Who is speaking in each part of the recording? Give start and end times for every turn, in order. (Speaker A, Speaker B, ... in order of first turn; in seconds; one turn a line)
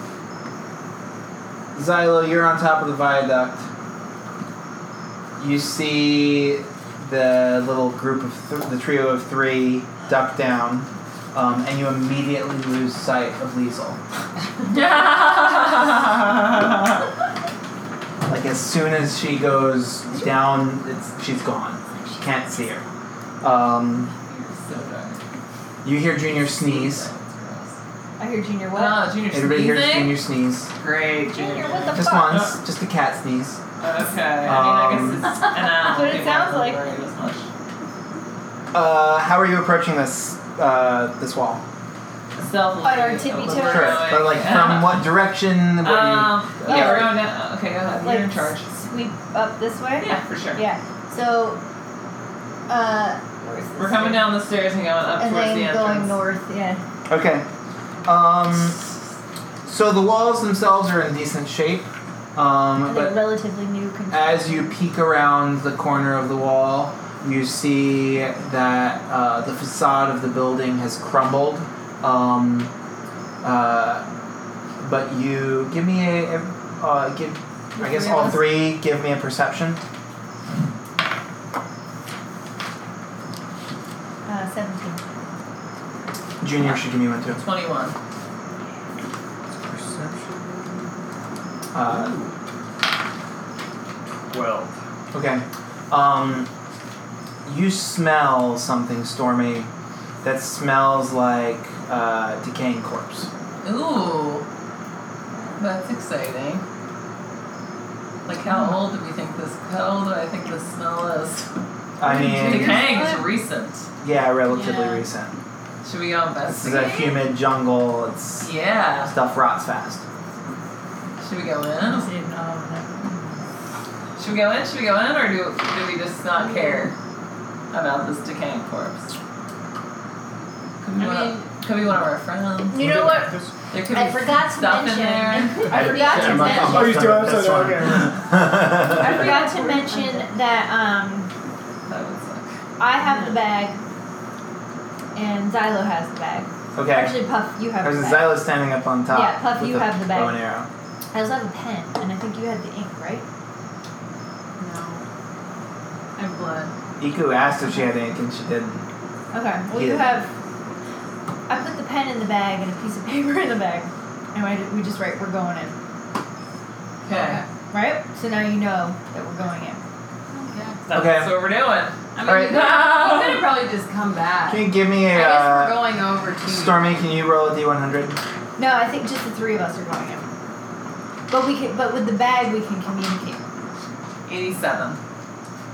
Speaker A: 1.7-3.6
Speaker A: 5.4-14.0
Speaker B: 14.7-16.9
Speaker A: 18.2-22.8
Speaker C: 21.9-22.2
Speaker A: 23.4-24.1
Speaker B: 24.3-25.2
Speaker A: 25.8-27.1
Speaker B: 26.5-27.8
Speaker C: 28.2-29.0
Speaker B: 28.7-30.2
Speaker A: 29.3-30.7
Speaker B: 30.8-32.4
Speaker C: 31.2-32.5
Speaker A: 31.9-33.6
Speaker B: 33.8-37.5
Speaker A: 34.4-35.2
Speaker C: 35.8-36.8
Speaker A: 38.7-41.6
Speaker B: 42.4-45.1
Speaker C: 42.8-44.2
Speaker A: 43.4-47.1
Speaker B: 45.8-48.7
Speaker C: 46.7-47.1
Speaker C: 48.0-51.6
Speaker B: 50.0-50.6
Speaker C: 52.7-54.4
Speaker B: 53.8-56.2
Speaker C: 55.2-56.8
Speaker A: 57.1-57.5
Speaker A: 58.0-58.8
Speaker A: 59.6-63.2
Speaker C: 62.8-64.7
Speaker A: 64.1-72.7
Speaker A: 73.4-74.0
Speaker A: 74.8-79.8
Speaker C: 77.8-78.6
Speaker C: 84.2-85.0
Speaker A: 86.4-87.4
Speaker B: 86.6-87.9
Speaker D: 89.7-90.8
Speaker A: 91.7-92.1
Speaker D: 91.8-92.3
Speaker D: 94.3-94.7
Speaker A: 95.1-96.5
Speaker A: 97.4-99.7
Speaker A: 100.2-103.3
Speaker B: 103.6-104.4
Speaker B: 105.6-106.6
Speaker B: 108.2-111.5
Speaker A: 112.0-112.8
Speaker C: 112.0-113.1
Speaker B: 112.4-113.9
Speaker E: 112.4-113.2
Speaker A: 114.0-115.3
Speaker E: 114.5-115.0
Speaker B: 115.8-117.2
Speaker A: 116.5-120.0
Speaker B: 118.4-119.1
Speaker B: 121.2-122.1
Speaker C: 121.8-123.5
Speaker B: 124.2-126.9
Speaker E: 126.3-126.9
Speaker B: 127.7-129.1
Speaker B: 130.8-132.8
Speaker E: 130.9-131.5
Speaker C: 132.7-137.1
Speaker D: 132.7-133.5
Speaker B: 133.7-135.7
Speaker E: 135.7-136.7
Speaker A: 135.7-139.2
Speaker D: 136.4-138.3
Speaker C: 138.9-141.3
Speaker E: 139.2-140.2
Speaker B: 141.9-142.5
Speaker C: 142.8-143.8
Speaker C: 145.1-148.4
Speaker A: 146.7-147.2
Speaker A: 147.8-150.7
Speaker C: 149.1-150.4
Speaker C: 151.1-153.2
Speaker E: 154.6-155.0
Speaker E: 156.2-156.7
Speaker A: 157.0-158.8
Speaker C: 159.3-160.3
Speaker A: 159.7-160.2
Speaker C: 161.5-165.7
Speaker B: 167.0-167.4
Speaker E: 167.1-167.4
Speaker C: 167.7-169.8
Speaker E: 170.3-170.8
Speaker B: 170.9-173.5
Speaker A: 170.9-171.3
Speaker E: 172.1-177.1
Speaker A: 172.2-172.6
Speaker A: 174.5-175.9
Speaker A: 176.4-178.2
Speaker C: 178.6-180.3
Speaker C: 181.3-183.4
Speaker B: 184.2-185.0